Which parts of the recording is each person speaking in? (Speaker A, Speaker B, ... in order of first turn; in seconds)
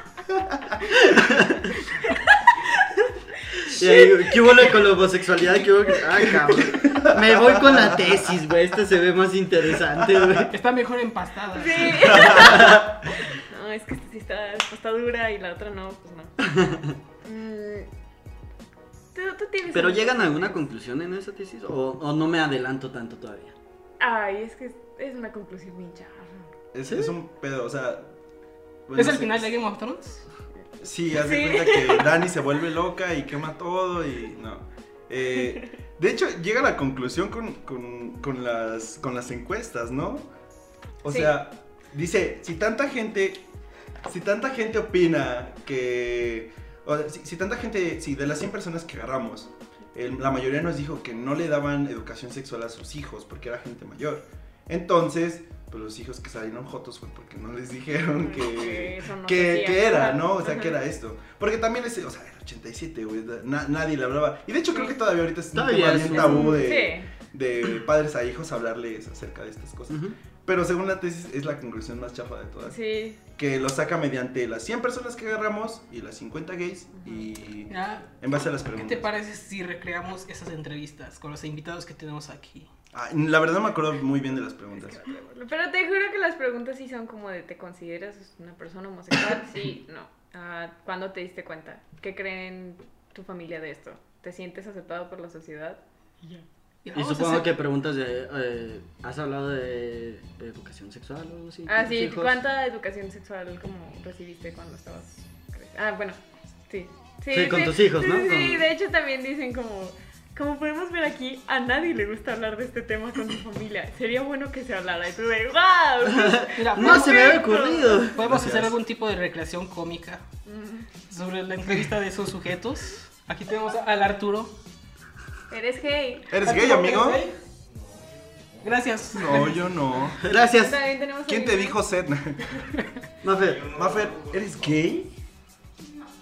Speaker A: 0.8-1.8, 3.6-10.6, 12.3-12.8, 16.4-17.0, 19.7-23.5, 26.9-27.2, 65.5-66.7, 69.9-70.2, 96.9-102.4, 107.3-108.7, 116.1-118.3, 130.2-130.8, 133.2-133.8
Speaker B: 2.0-4.3, 11.5-16.4, 17.2-17.9, 19.1-20.6, 24.0-26.5, 31.2-32.1, 41.1-41.4, 58.2-60.8, 66.1-67.1, 72.7-73.2, 77.0-77.3, 84.8-96.5, 101.7-118.1, 120.5-120.9, 125.5-126.4, 130.6-131.8
Speaker C: 6.2-7.9, 10.2-10.4, 12.1-12.7, 26.7-28.1, 28.9-29.5, 30.8-40.3, 41.0-43.5, 44.0-72.8, 73.3-79.1, 82.9-85.0, 118.2-118.8, 126.3-127.2, 129.1-130.3, 131.3-132.7, 133.7-135.1
Speaker D: 10.5-12.5, 28.9-30.3, 77.7-78.2, 78.7-82.7, 96.8-97.5, 116.6-117.5, 118.0-120.2, 121.1-124.5, 126.4-127.4, 128.6-129.7